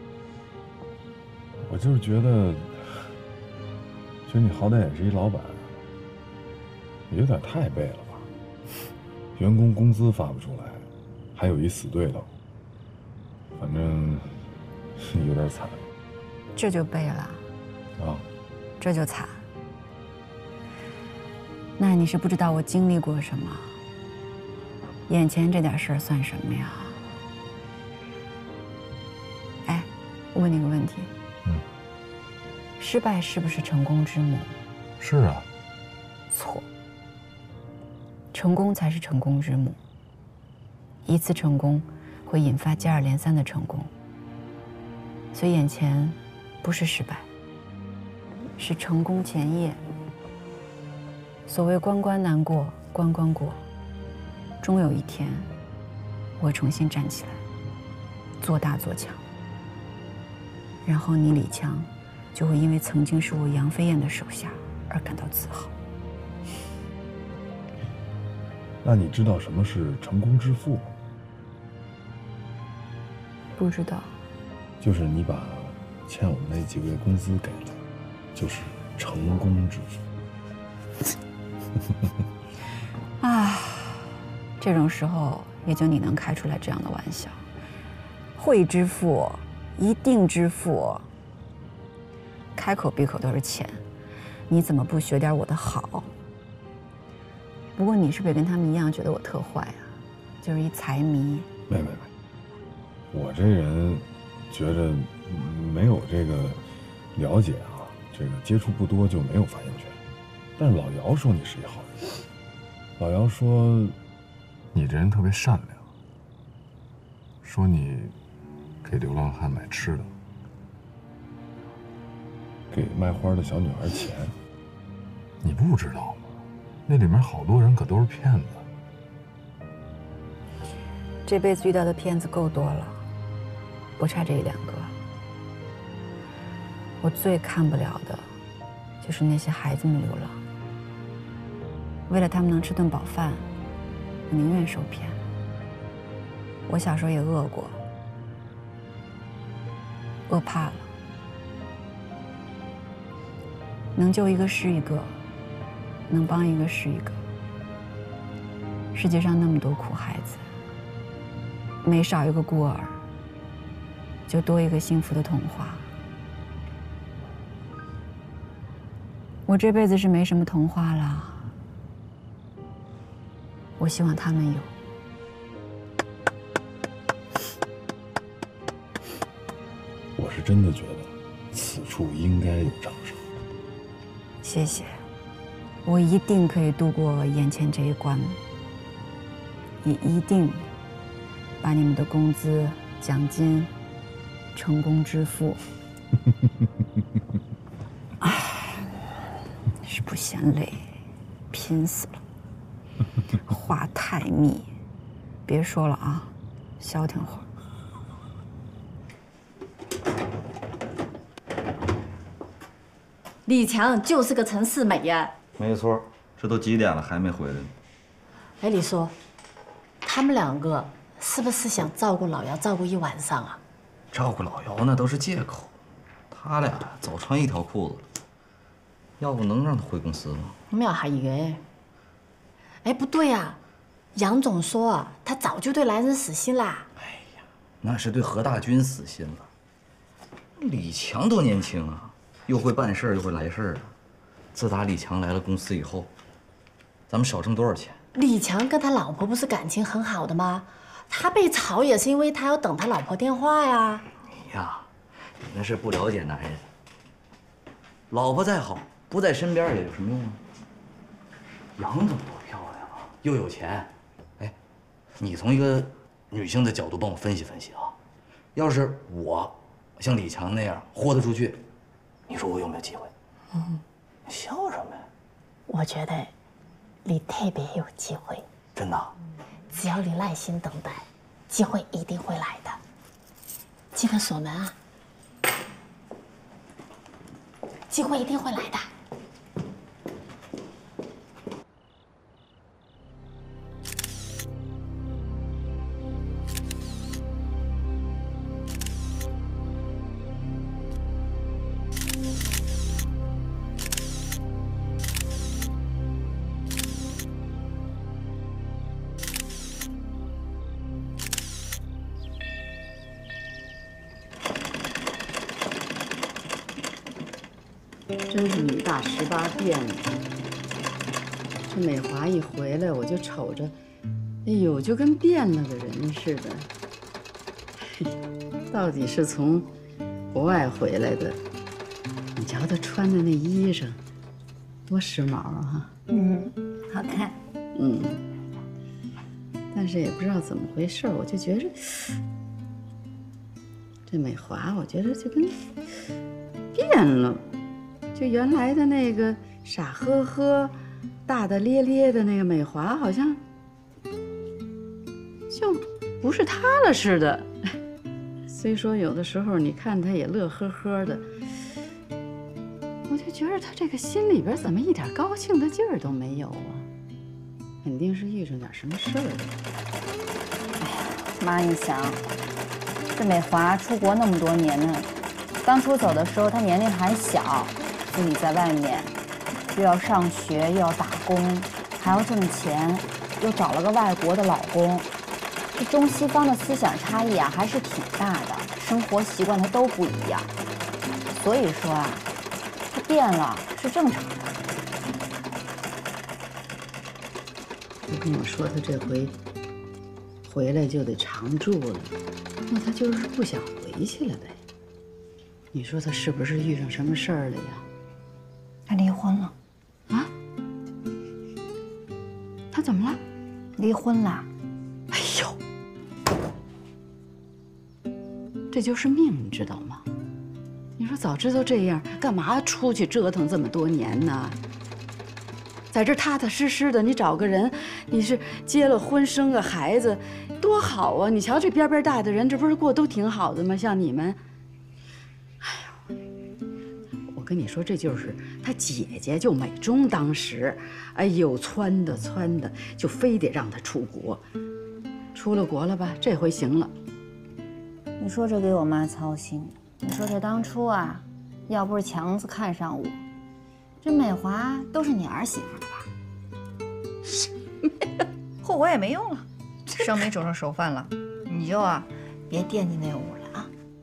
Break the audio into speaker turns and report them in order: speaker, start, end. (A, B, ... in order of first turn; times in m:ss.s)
0:01.6-0:02.8 A
0:04.3-0:05.7 A
0:07.1-0:08.3 A
0:09.4-0:12.3 A
0:13.6-0:14.4 A
0:15.0-0:15.8 A
0:16.6-0:17.4 B
0:18.0-0:18.2 A
0:18.8-0:19.4 B
0:21.8-0:23.7 B
0:25.1-0:27.0 B
0:29.6-0:31.1 B
0:32.8-0:34.6 B
0:35.0-0:35.4 A
0:36.3-0:36.6 B
0:38.3-0:39.8 B
0:41.0-0:43.9 B
0:45.3-0:47.3 B
0:48.6-0:49.8 B
0:51.5-0:53.6 B
0:54.6-0:55.5 B
0:56.4-0:57.4 B
0:58.4-0:59.2 B
1:00.8-1:05.7 B
1:08.8-1:10.9 A
1:13.6-1:14.1 B
1:14.8-1:17.8 A
1:18.3-1:20.0 A
1:23.2-1:27.4 B
1:28.4-1:31.0 B
1:32.6-1:33.8 B
1:34.5-1:36.1 B
1:37.8-1:41.5 B
1:41.7-1:42.1 A
1:43.1-1:46.6 A
1:47.1-1:50.0 A
1:50.6-1:52.2 A
1:53.0-1:54.0 A
1:54.7-1:55.8 A
1:57.4-1:58.1 A
1:58.8-2:00.1 A
2:02.7-2:04.3 A
2:05.4-2:06.3 A
2:06.8-2:08.6 A
2:11.2-2:13.0 B
2:14.0-2:14.9 B
2:17.0-2:18.3 B
2:19.0-2:20.4 B
2:22.1-2:23.5 B
2:24.3-2:25.2 B
2:26.7-2:27.8 B
2:30.3-2:30.9 B
2:33.9-2:35.2 B
2:36.1-2:37.2 B
2:38.9-2:40.4 B
2:41.8-2:43.0 B
2:44.3-2:45.9 B
2:49.4-2:51.5 B
2:53.8-2:54.7 B
3:00.2-3:03.2 A
3:04.4-3:05.0 B
3:05.8-3:08.4 B
3:09.8-3:10.7 B
3:11.6-3:13.7 B
3:14.5-3:15.6 B
3:18.2-3:18.8 B
3:19.8-3:20.8 B
3:21.5-3:22.2 B
3:23.4-3:24.7 B
3:25.4-3:27.5 B
3:33.5-3:35.3 C
3:35.6-3:37.7 D
3:38.6-3:39.1 C
3:40.0-3:43.6 C
3:44.1-3:45.7 D
3:46.3-3:48.0 D
3:49.2-3:50.6 D
3:50.7-3:51.6 C
3:52.8-3:53.6 C
3:54.1-3:56.9 C
3:57.8-3:59.5 D
4:00.6-4:03.9 D
4:04.5-4:06.1 D
4:07.1-4:08.0 D
4:08.1-4:14.0 C
4:14.3-4:14.9 D
4:15.4-4:16.6 D
4:18.1-4:20.4 D
4:21.8-4:24.5 D
4:25.2-4:27.9 D
4:28.5-4:31.6 D
4:32.3-4:33.1 D
4:34.3-4:35.0 D
4:35.7-4:36.3 C
4:37.0-4:38.4 C
4:38.8-4:39.1 D
4:39.7-4:42.8 C
4:43.9-4:44.7 C
4:47.9-4:48.9 C
5:18.3-5:20.2 E
5:21.6-5:23.7 E
5:24.4-5:26.7 E
5:27.8-5:28.1 E
5:28.7-5:29.7 E
5:30.3-5:31.4 E
5:32.4-5:34.0 E
5:34.9-5:35.9 E
5:36.1-5:36.5 F
5:37.7-5:38.2 E
5:39.7-5:42.1 E
5:44.1-5:45.6 E
5:46.7-5:47.4 E
5:48.1-5:50.7 E
5:51.2-5:53.4 E
5:55.5-5:57.8 E
5:58.5-6:01.3 E
6:03.1-6:06.8 E
6:07.8-6:09.5 E
6:10.8-6:12.2 F
6:13.1-6:15.1 F
6:15.6-6:19.1 F
6:19.8-6:25.0 F
6:25.7-6:30.5 F
6:31.3-6:32.2 F
6:32.9-6:34.5 F
6:38.1-6:39.3 E
6:40.5-6:42.1 E
6:42.7-6:44.6 E
6:45.7-6:47.8 E
6:48.9-6:49.5 F
6:52.7-6:53.2 E
6:53.8-6:54.5 F
6:55.1-6:55.6 E
6:58.7-7:00.0 E
7:01.0-7:04.6 E
7:05.9-7:14.4 E
7:15.6-7:16.0 E
7:17.3-7:24.4 E
7:25.3-7:26.9 E
7:28.2-7:33.2 F
7:34.0-7:36.1 F
7:38.6-7:43.7 F